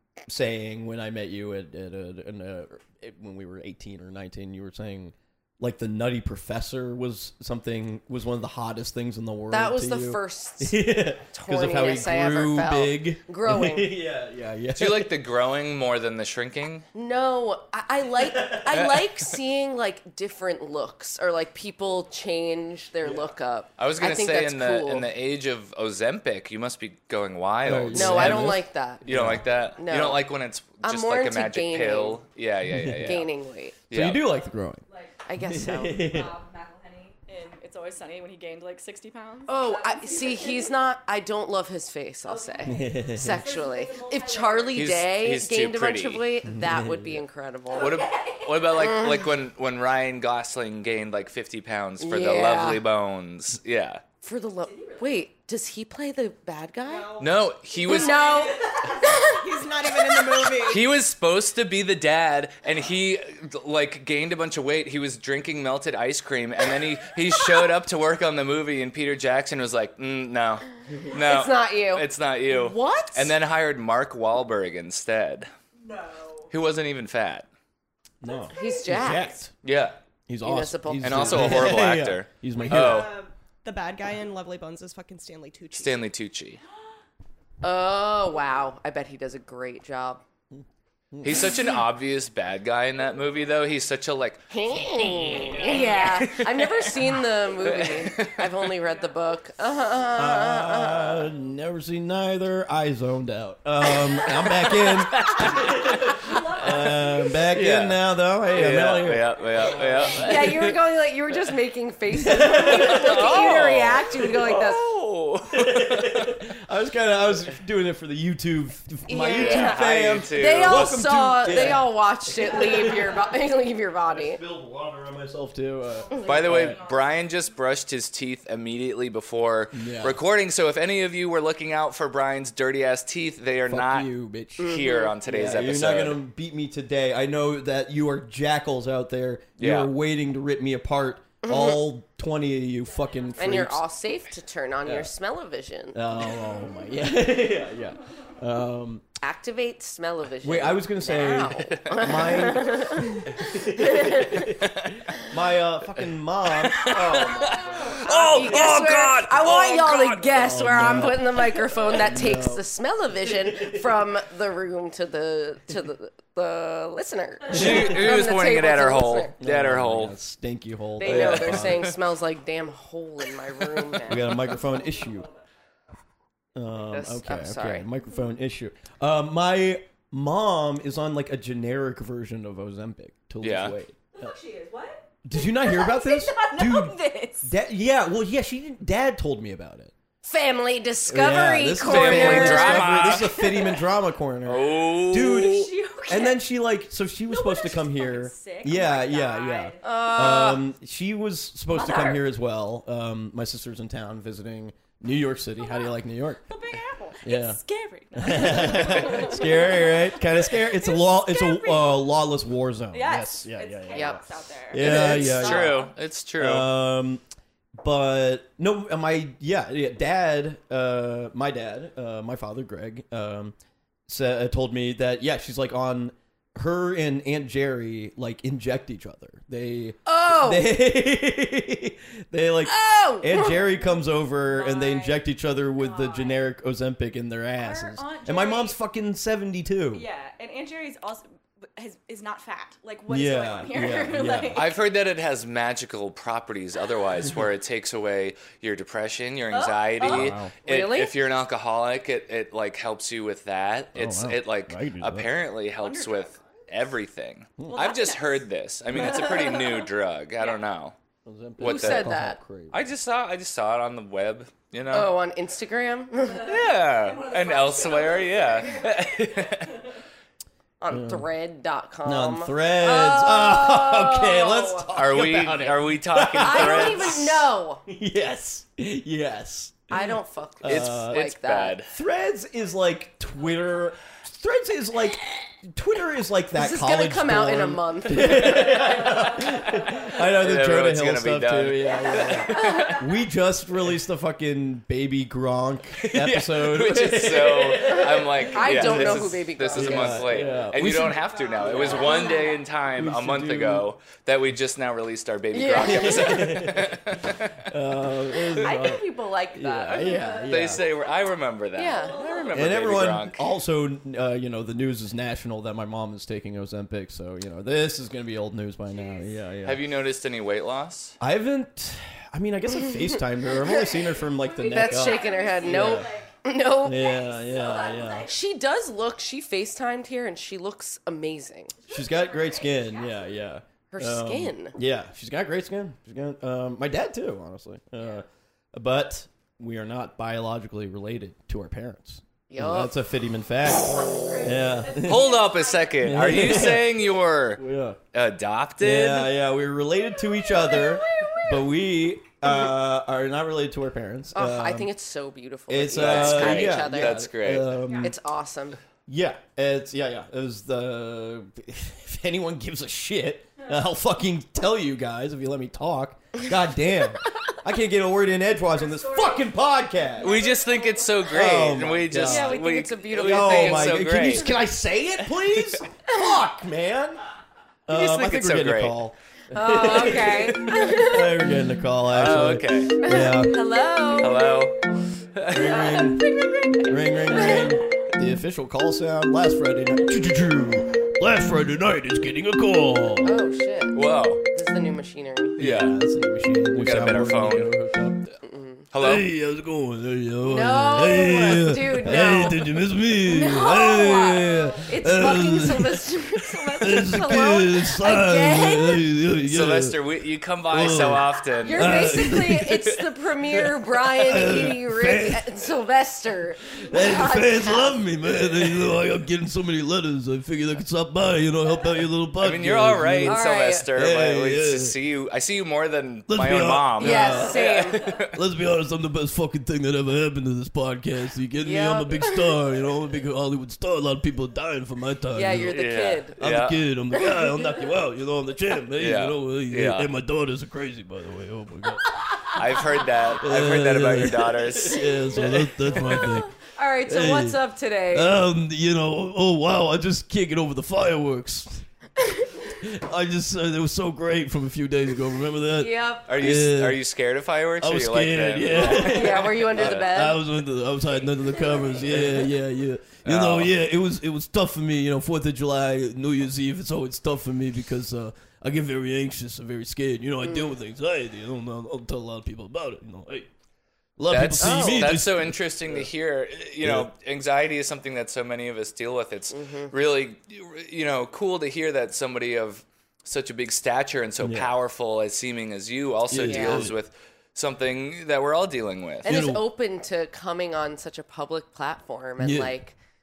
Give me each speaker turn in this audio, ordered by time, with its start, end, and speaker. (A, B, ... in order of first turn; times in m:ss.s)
0:00.3-0:15.2 A
0:09.5-0:13.9 B
0:14.7-0:16.8 C
0:16.9-0:25.1 B
0:18.2-0:18.8 A
0:18.7-0:19.1 C
0:23.0-0:23.3 A
0:23.8-0:33.3 C
0:27.6-0:29.5 A
0:27.9-0:30.2 B
0:30.8-0:32.2 B
0:32.7-0:33.2 A
0:33.0-0:33.7 B
0:33.9-0:34.2 C
0:33.9-0:34.8 A
0:34.8-0:35.2 D
0:35.2-0:36.1 B
0:35.4-0:36.3 A
0:35.8-0:40.7 D
0:39.5-0:47.9 B
0:42.2-0:44.9 D
0:42.6-0:43.4 A
0:44.7-0:46.3 C
0:46.4-0:47.2 A
0:47.7-0:48.9 D
0:47.8-0:54.0 C
0:48.7-0:49.3 B
0:52.0-0:52.8 B
0:54.2-0:57.1 B
0:54.6-0:55.2 D
0:56.8-1:00.8 E
0:57.2-0:58.4 C
0:57.8-0:59.4 B
0:57.8-0:59.4 D
1:00.4-1:15.5 C
1:11.1-1:13.3 B
1:15.8-1:16.5 D
1:16.5-1:17.5 C
1:18.2-1:19.5 A
1:18.5-1:19.4 B
1:18.9-1:19.2 D
1:19.6-1:20.0 C
1:20.3-1:23.1 A
1:20.4-1:21.7 B
1:21.0-1:23.1 C
1:22.6-1:26.0 E
1:25.7-1:26.6 C
1:27.6-1:30.2 B
1:30.5-1:31.6 A
1:31.2-1:36.8 C
1:34.5-1:41.3 B
1:37.6-1:38.5 C
1:38.8-1:39.1 D
1:40.1-1:50.5 A
1:44.7-1:45.7 C
1:45.4-1:47.4 D
1:47.5-1:48.0 C
1:48.5-1:50.7 C
1:50.1-1:54.8 B
1:52.1-1:53.4 A
1:52.6-1:56.4 C
1:55.5-2:03.2 A
1:59.1-2:04.4 B
1:59.3-2:00.9 C
2:04.1-2:06.8 A
2:06.1-2:07.1 D
2:06.2-2:16.2 C
2:09.7-2:10.2 A
2:13.7-2:23.8 A
2:14.6-2:15.1 B
2:19.6-2:19.9 C
2:21.4-2:21.8 B
2:23.4-2:26.0 B
2:24.8-2:25.1 A
2:25.9-2:29.0 A
2:29.2-2:34.5 B
2:30.4-2:34.7 A
2:31.7-2:32.0 C
2:34.6-2:35.0 C
2:35.2-2:42.6 A
2:36.6-2:40.1 C
2:37.9-2:49.3 B
2:43.3-2:43.8 A
2:47.5-2:50.1 C
2:47.5-2:48.0 A
2:49.4-2:51.9 A
2:51.0-2:54.4 B
2:51.0-2:52.0 C
2:54.0-2:55.3 A
2:54.6-2:55.4 D
2:56.5-3:04.3 A
2:56.9-2:57.8 B
3:03.4-3:03.7 C
3:04.2-3:07.5 D
3:05.2-3:09.9 A
3:10.2-3:13.2 B
3:11.1-3:26.4 A
3:11.8-3:13.6 C
3:14.4-3:15.7 C
3:15.3-3:16.4 D
3:17.3-3:20.5 D
3:19.8-3:20.6 B
3:21.7-3:22.2 D
3:25.6-3:26.0 D
3:26.5-3:32.1 D
3:27.2-3:27.6 A
3:28.1-3:35.9 A
3:28.8-3:29.3 C
3:32.9-3:35.9 D
3:33.9-3:34.2 B
3:34.7-3:36.7 C
3:34.8-3:35.7 B
3:36.4-3:37.2 A
3:37.8-3:43.5 A
3:44.1-4:00.0 A
3:50.0-3:50.8 B
3:52.6-3:53.6 B
3:54.4-3:55.2 D
3:55.8-3:56.4 D
3:57.6-3:58.8 D
3:59.9-4:04.7 D
4:03.1-4:04.7 A
4:04.5-4:20.9 C
4:09.5-4:10.3 D
4:10.0-4:10.5 A
4:10.6-4:11.1 B
4:13.9-4:15.3 A
4:15.8-4:16.6 D
4:17.7-4:18.4 D
4:19.0-4:19.7 D
4:21.2-4:22.8 A
4:21.6-4:22.1 C
4:21.6-4:22.4 B
4:22.7-4:25.1 C
4:24.9-4:26.5 B
4:26.4-4:29.8 C
4:27.0-4:29.8 D
4:30.8-4:34.9 B
4:30.9-4:31.3 A
4:32.0-4:41.2 A
4:34.9-4:37.4 C
4:36.4-4:37.8 B
4:39.9-4:41.8 B
4:40.6-4:41.9 C
4:41.8-5:02.2 A
4:46.5-4:49.0 B
4:50.3-4:53.0 C
4:56.0-5:07.6 C
4:57.8-5:00.3 B
5:01.3-5:02.6 D
5:02.9-5:03.9 A
5:05.5-5:06.7 B
5:05.8-5:10.8 A
5:08.6-5:10.4 B
5:09.9-5:12.7 D
5:10.4-5:13.4 C
5:11.7-5:12.2 B
5:12.5-5:19.8 A
5:18.9-5:19.3 D
5:19.6-5:21.2 C
5:21.2-5:26.1 A
5:23.6-5:24.0 B
5:24.2-5:26.4 D
5:24.6-5:27.0 B
5:26.8-5:28.3 A
5:26.9-5:28.3 D
5:28.2-5:31.7 B
5:31.8-5:33.3 D
5:31.9-5:45.4 A
5:33.9-5:34.8 B
5:42.5-5:42.9 B
5:44.0-5:46.3 D
5:45.0-5:47.6 C
5:46.0-5:47.0 A
5:47.6-5:48.0 A
5:48.1-5:49.3 C
5:48.8-5:54.9 A
5:50.6-5:51.4 D
5:54.3-5:57.2 B
5:55.7-5:58.1 A
5:55.9-5:57.7 C
5:57.8-5:58.1 D
5:58.0-5:58.8 B
5:59.1-6:10.4 A
6:08.9-6:09.5 D
6:10.2-6:11.3 D
6:10.2-6:14.5 C
6:11.3-6:17.2 A
6:12.2-6:14.1 B
6:17.9-6:23.6 A
6:17.9-6:19.0 C
6:19.5-6:21.3 B
6:22.1-6:23.0 C
6:23.0-6:24.5 B
6:24.2-6:24.8 C
6:25.3-6:25.9 C
6:25.5-6:33.4 A
6:33.2-6:35.6 B
6:33.9-6:34.4 C
6:35.6-6:35.9 C
6:35.6-6:38.2 A
6:36.8-6:37.7 C
6:38.4-6:38.9 B
6:38.9-6:39.3 C
6:39.0-6:50.0 A
6:40.4-6:49.1 B
6:49.4-6:53.6 C
6:50.7-6:52.8 A
6:51.6-6:58.9 B
6:54.1-6:55.4 A
6:56.8-7:03.4 A
7:02.4-7:08.4 C
7:03.2-7:03.9 B
7:03.9-7:04.9 A
7:06.3-7:07.6 A
7:07.0-7:08.1 B
7:08.2-7:15.8 A
7:11.6-7:12.6 B
7:15.3-7:16.4 B
7:15.7-7:16.8 C
7:16.4-7:22.6 A
7:17.1-7:17.8 B
7:18.9-7:20.1 C
7:22.5-7:26.3 C
7:23.4-7:26.5 A
7:25.3-7:28.4 B
7:27.0-7:31.8 A
7:32.2-7:32.5 B
7:32.7-7:37.0 A
7:35.7-7:36.3 B
7:36.3-7:40.1 C
7:37.8-7:53.5 A
7:38.7-7:40.4 B
7:42.1-7:42.3 C
7:43.2-7:43.7 C
7:50.4-7:50.8 B
7:54.2-7:56.1 A
7:54.3-8:09.3 C
7:54.6-7:55.1 B
7:56.8-7:57.1 A
7:59.5-7:59.9 B
8:04.4-8:04.7 A
8:06.3-8:06.9 A
8:06.4-8:06.9 B
8:09.2-8:13.0 B
8:09.2-8:09.6 A
8:12.4-8:12.7 A